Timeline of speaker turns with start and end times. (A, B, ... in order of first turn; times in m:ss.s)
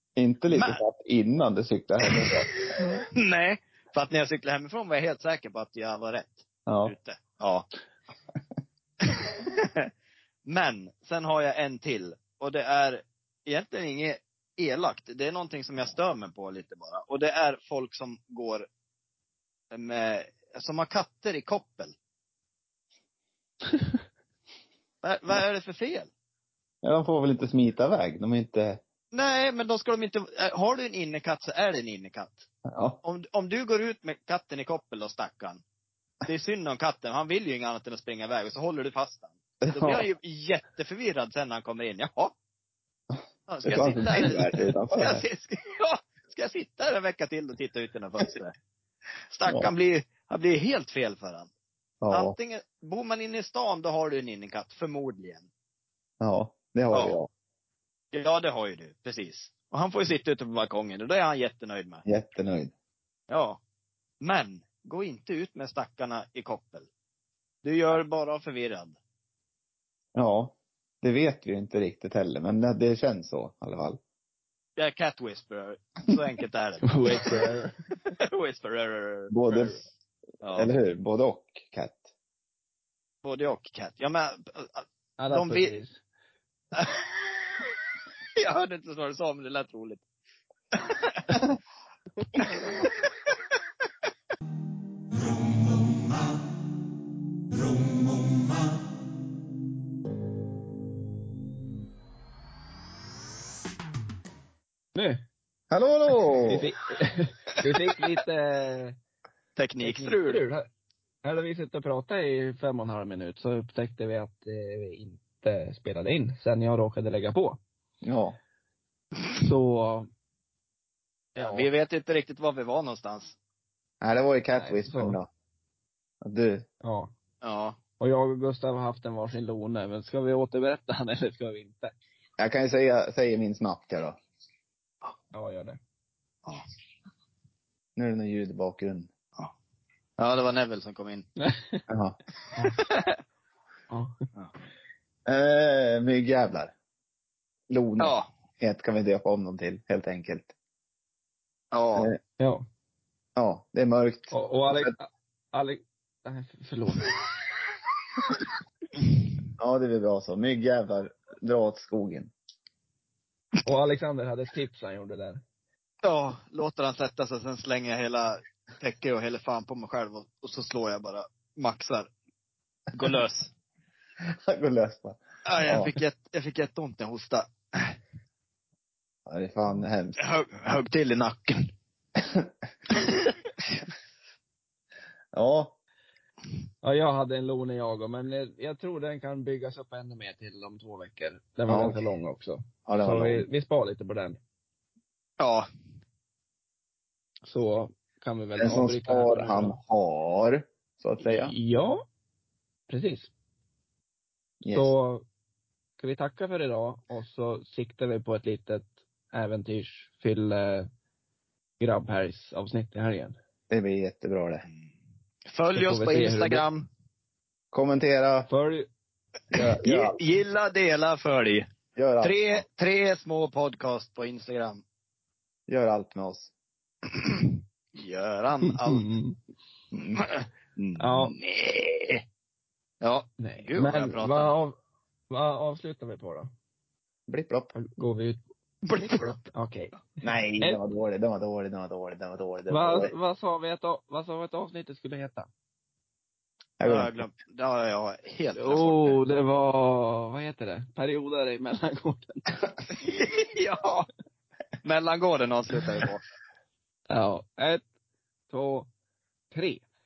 0:00.2-0:02.5 A
0:00.5-0:00.8 B
0:02.1-0:07.6 B
0:06.7-0:06.9 A
0:09.0-0:09.9 B
0:10.4-0:18.6 B
0:19.7-0:21.9 B
0:25.0-0:26.1 B
0:26.8-0:28.8 A
0:29.1-0:32.5 B
0:32.6-0:33.0 A
0:33.0-0:35.6 B
0:36.2-0:42.3 B
0:39.6-0:40.1 A
0:43.5-0:48.5 B
0:43.6-0:45.2 A
0:49.3-0:51.5 B
0:52.0-0:52.3 A
0:52.1-0:55.5 B
0:56.2-0:57.3 A
0:56.9-0:57.2 B
0:58.1-1:02.0 B
1:02.0-1:02.7 A
1:03.3-1:03.6 B
1:04.2-1:06.9 B
1:07.6-1:09.0 B
1:10.1-1:14.0 A
1:14.8-1:17.4 B
1:16.8-1:17.8 C
1:18.2-1:19.8 B
1:19.3-1:19.8 A
1:20.4-1:20.7 B
1:20.5-1:22.1 A
1:23.2-1:25.7 B
1:25.2-1:26.0 C
1:26.7-1:27.6 B
1:28.4-1:30.0 B
1:30.7-1:31.4 B
1:32.4-1:33.1 B
1:35.6-1:36.0 B
1:44.9-1:45.2 C
1:45.7-1:46.6 A
1:46.4-1:49.0 C
1:49.6-1:50.4 B
1:49.8-1:50.7 C
1:51.2-1:57.6 C
1:58.0-1:58.4 A
1:59.4-2:00.1 C
2:01.4-2:01.7 C
2:01.4-2:03.4 B
2:04.0-2:05.3 A
2:04.5-2:05.2 C
2:06.2-2:06.6 A
2:06.8-2:07.1 C
2:07.4-2:07.8 B
2:08.0-2:11.9 C
2:12.4-2:14.2 A
2:15.3-2:15.8 C
2:18.0-2:19.1 A
2:20.2-2:21.2 B
2:21.4-2:21.8 C
2:21.9-2:22.2 A
2:22.6-2:23.1 B
2:23.9-2:24.2 C
2:25.2-2:26.7 A
2:27.7-2:30.5 A
2:28.0-2:28.3 B
2:31.7-2:32.1 B
2:32.4-2:32.6 C
2:33.4-2:34.9 A
2:34.3-2:37.1 C
2:39.6-2:42.3 A
2:43.6-2:45.4 C
2:46.0-2:52.1 B
2:52.9-2:53.5 B
2:54.5-2:55.9 A
2:55.4-2:57.9 B
2:59.3-3:00.2 A
3:00.2-3:01.7 B
3:02.2-3:02.5 A
3:03.0-3:03.3 B
3:05.3-3:05.8 A
3:06.8-3:14.4 C
3:11.7-3:12.0 A
3:12.8-3:13.5 A
3:15.4-3:15.7 B
3:17.4-3:19.8 C
3:18.6-3:21.5 A
3:21.2-3:22.0 C
3:22.9-3:23.3 C
3:24.6-3:24.9 A
3:24.7-3:25.2 C
3:26.0-3:30.9 C
3:31.8-3:33.3 C
3:33.7-3:34.6 A
3:35.5-3:36.9 B
3:35.7-3:36.6 C
3:37.7-3:38.5 A
3:38.5-3:38.9 C
3:39.5-3:40.2 A
3:39.8-3:41.6 B
3:41.9-3:42.6 A
3:42.2-3:44.8 B
3:45.7-3:46.5 A
3:47.1-3:49.0 B
3:48.6-3:49.4 C
3:49.9-3:52.2 B
3:51.0-3:51.4 C
3:53.0-3:54.5 B
3:53.4-3:54.8 C
3:55.3-3:56.5 C
3:57.3-3:57.7 A
3:57.7-3:58.4 C
3:58.8-3:59.4 B
3:59.4-4:00.8 C
4:00.2-4:03.1 A
4:02.7-4:05.5 C
4:06.8-4:07.2 A
4:06.8-4:09.2 B
4:08.6-4:12.7 C
4:13.0-4:14.1 B
4:14.8-4:16.2 B
4:17.1-4:17.8 C
4:18.5-4:18.9 C
4:19.5-4:19.8 C